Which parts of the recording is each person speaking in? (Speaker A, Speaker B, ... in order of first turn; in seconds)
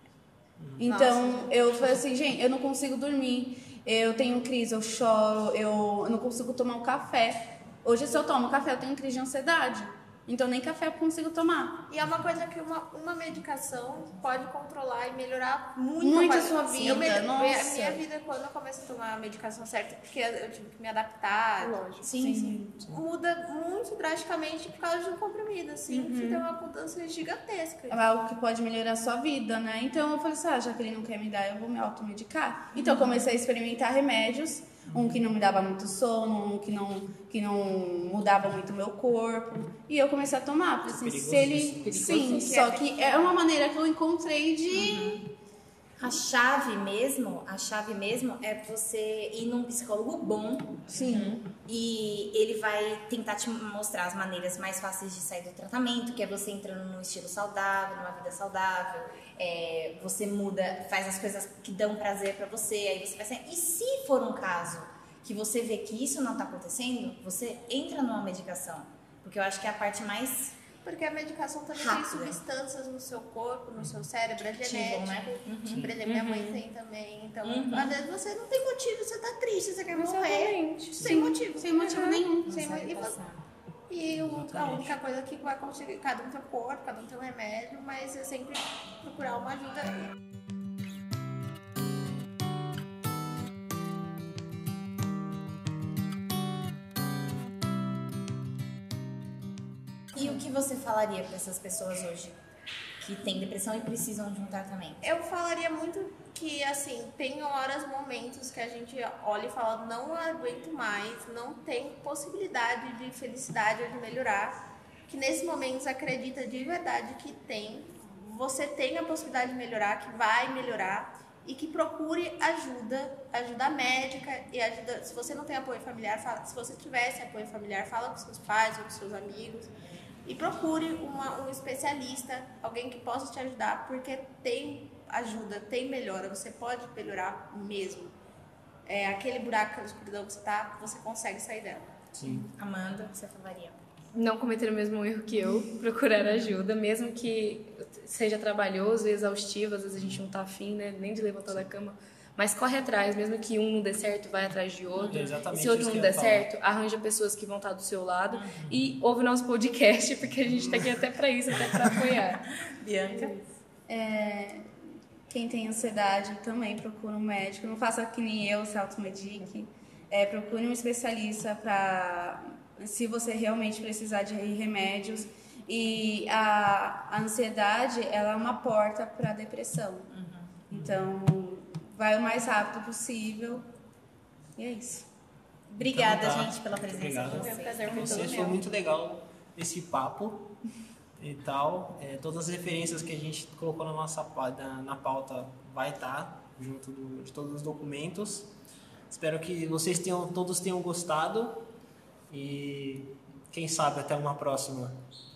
Speaker A: 0.6-0.8, 34.9-35.2, 40.8-42.3, 81.0-81.3, 84.1-84.9, 142.1-142.5, 155.0-156.5, 180.7-181.1, 185.8-190.5, 191.2-198.5, 199.1-201.7, 202.3-205.0
Speaker B: 0.8-11.9, 16.0-18.0, 22.1-22.8, 27.9-45.2, 50.9-51.4, 81.0-82.5, 163.9-180.1, 180.7-183.7, 184.6-185.1
Speaker C: 0.9-1.4, 21.6-22.0, 25.9-26.4, 41.8-42.7, 51.0-51.4, 76.0-76.6, 79.9-81.2, 144.1-162.5
Speaker D: 11.9-21.9, 22.9-28.0, 42.0-43.4, 70.8-83.2, 83.9-90.1, 105.0-129.7, 130.2-138.2, 138.8-142.0, 187.2-188.6
Speaker E: 22.0-22.6, 44.7-45.2, 46.0-70.5, 71.7-72.4, 74.6-75.9, 77.4-78.0, 82.4-83.4, 100.1-102.4, 103.0-105.0, 142.3-143.8, 158.3-158.7, 162.6-163.4, 180.1-180.6, 185.7-188.5